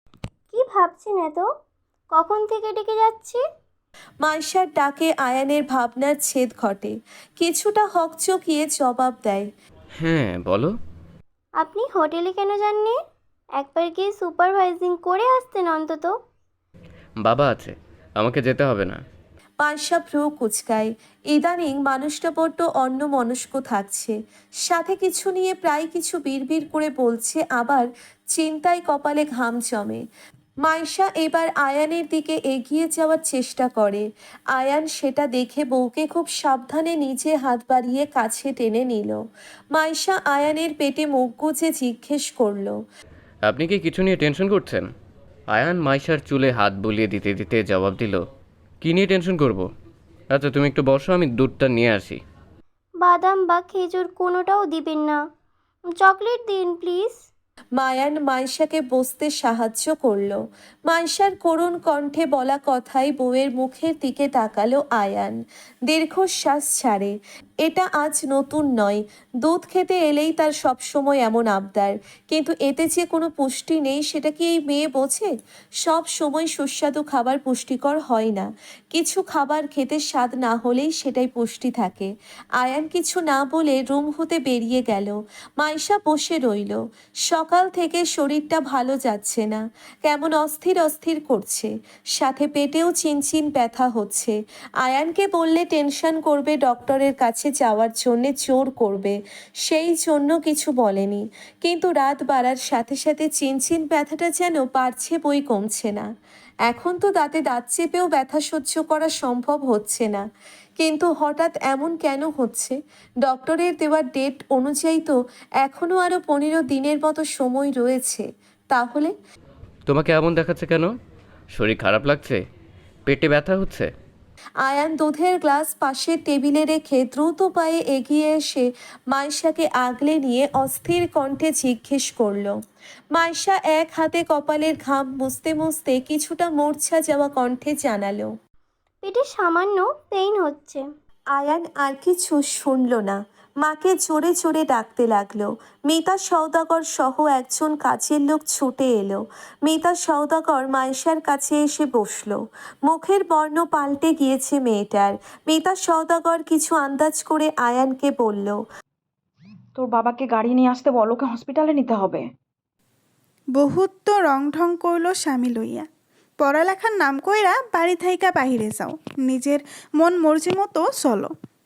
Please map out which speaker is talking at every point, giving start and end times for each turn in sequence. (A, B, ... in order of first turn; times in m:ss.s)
0:00.5-0:01.5 A
0:02.1-0:03.4 A
0:04.2-0:09.5 B
0:10.0-0:10.8 C
0:11.6-0:13.0 A
0:13.6-0:16.2 A
0:17.2-0:19.0 C
0:19.6-0:24.1 B
0:24.7-0:30.0 B
0:30.6-0:39.2 B
0:39.7-0:42.8 B
0:43.4-0:44.9 C
0:45.5-0:48.2 C
0:48.8-0:49.7 C
0:50.3-0:52.2 C
0:53.0-0:55.2 A
0:55.9-0:57.2 A
0:57.8-1:05.4 B
1:05.9-1:15.3 B
1:15.8-1:46.1 B
1:46.7-1:50.2 B
1:50.8-1:59.1 B
1:59.9-2:00.9 C
2:01.5-2:02.4 C
2:03.1-2:03.9 C
2:04.6-2:12.5 B
2:13.1-2:18.3 B
2:19.0-2:20.8 A
2:21.4-2:38.6 B
2:39.8-2:42.3 D
2:43.6-2:45.9 E
2:46.4-2:51.3 E